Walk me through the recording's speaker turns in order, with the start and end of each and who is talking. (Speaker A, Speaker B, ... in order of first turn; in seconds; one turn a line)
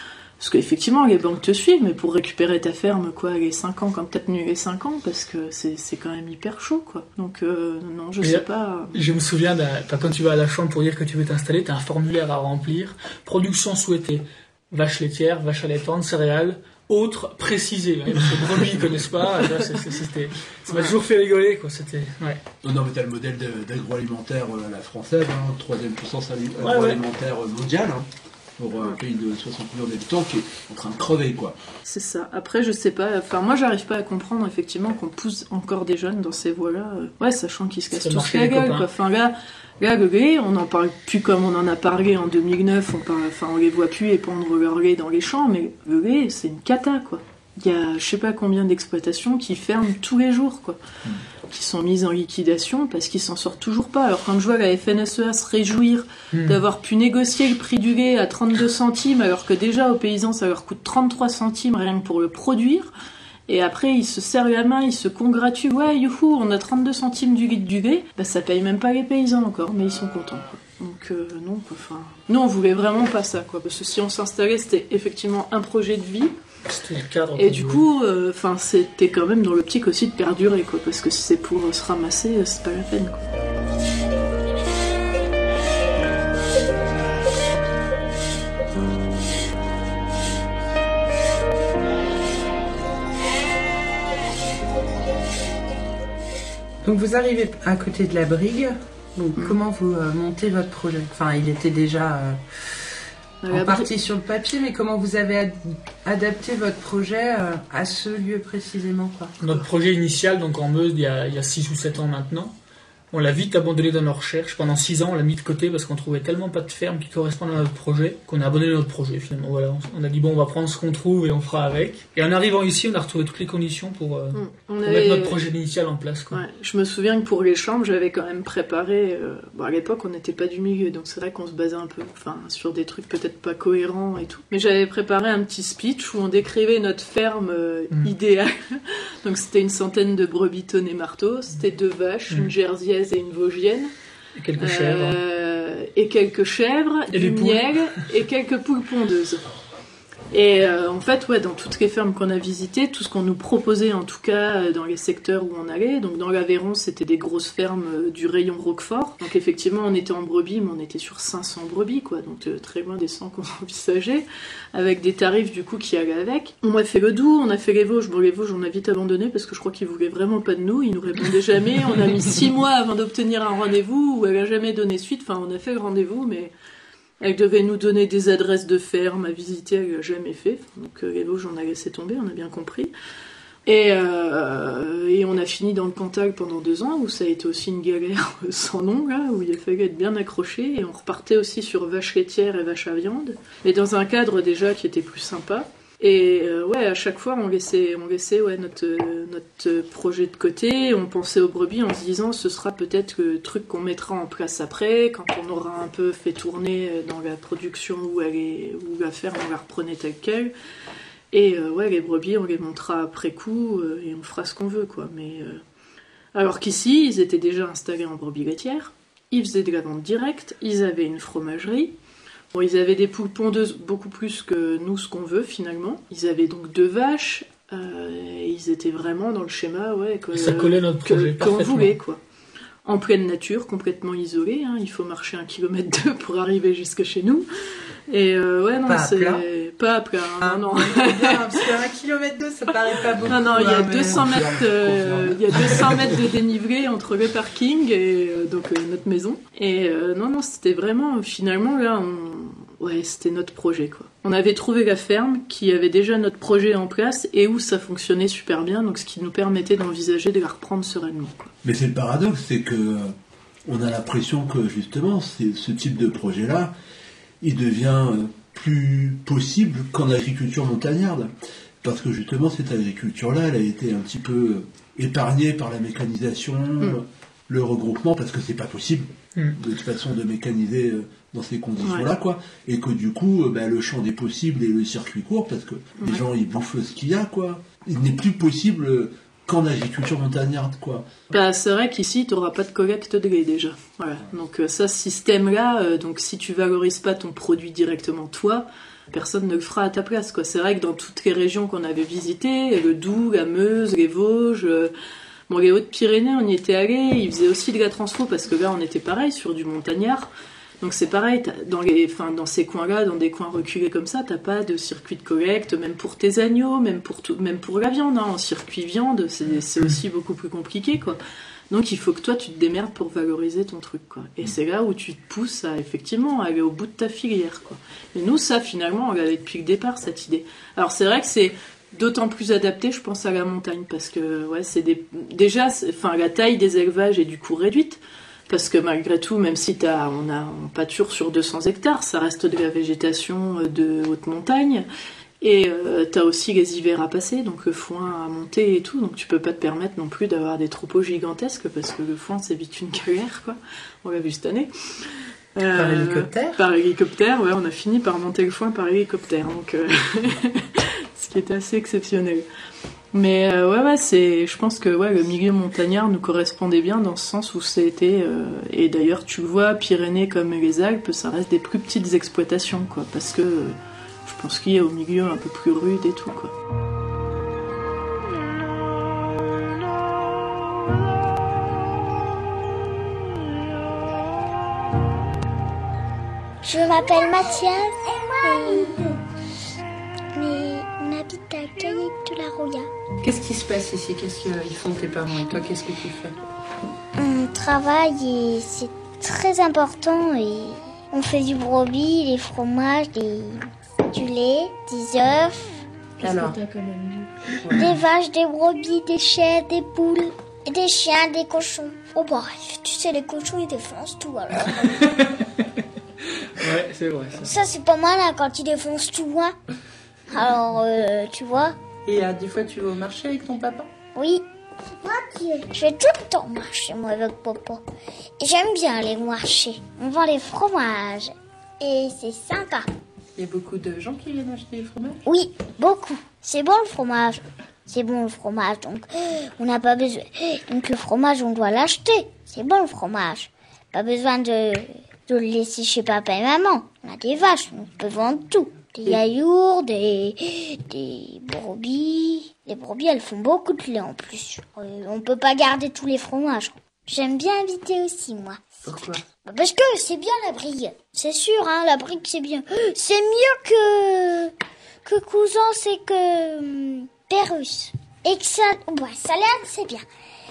Speaker A: 0.4-9.0
Speaker B: 8.2-22.4
Speaker C: 22.6-31.6
Speaker B: 26.6-27.0
Speaker A: 31.9-50.8
Speaker B: 37.9-38.9
Speaker A: 51.5-62.9
Speaker B: 56.3-56.6
Speaker A: 63.5-76.4
Speaker B: 76.7-77.9
Speaker A: 77.4-83.3
Speaker D: 96.8-102.9
Speaker A: 103.4-103.9
Speaker D: 103.5-109.4
Speaker B: 109.4-112.5
Speaker B: 113.1-126.4
Speaker A: 124.3-125.4
Speaker A: 126.3-143.9
Speaker B: 144.4-145.2
Speaker A: 144.6-149.4
Speaker B: 147.1-148.0
Speaker A: 150.3-176.5
Speaker A: 177.2-182.9
Speaker A: 183.7-210.5
Speaker A: 211.3-215.6
Speaker A: 216.3-221.9
Speaker A: 222.5-232.2
Speaker B: 230.3-232.0
Speaker A: 232.8-237.5
Speaker A: 238.1-241.3
Speaker D: 238.9-239.4
Speaker D: 240.4-244.5
Speaker A: 243.3-261.5
Speaker C: 244.9-245.2
Speaker C: 261.6-263.1
Speaker C: 263.6-266.7
Speaker C: 267.4-271.3
Speaker C: 271.8-291.1
Speaker A: 291.3-304.9
Speaker A: 305.5-310.3
Speaker A: 310.8-321.2
Speaker A: 321.7-344.9
Speaker A: 345.4-354.7
Speaker A: 355.6-362.5
Speaker D: 355.7-356.6
Speaker A: 363.1-376.5
Speaker E: 386.6-389.1
Speaker E: 390.4-392.9
Speaker D: 393.2-396.4
Speaker E: 397.2-405.7
Speaker A: 406.2-407.3
Speaker D: 406.2-406.6
Speaker D: 407.6-408.0
Speaker E: 407.8-415.0
Speaker B: 414.9-415.1
Speaker B: 416.5-417.5
Speaker E: 417.4-419.5
Speaker E: 420.3-421.8
Speaker D: 422.1-423.9
Speaker E: 424.1-424.4
Speaker E: 425.0-427.8
Speaker E: 428.4-432.9
Speaker D: 433.4-435.2
Speaker E: 435.2-439.1
Speaker E: 439.6-458.6
Speaker D: 458.9-459.2
Speaker E: 459.4-464.5
Speaker E: 465.0-470.0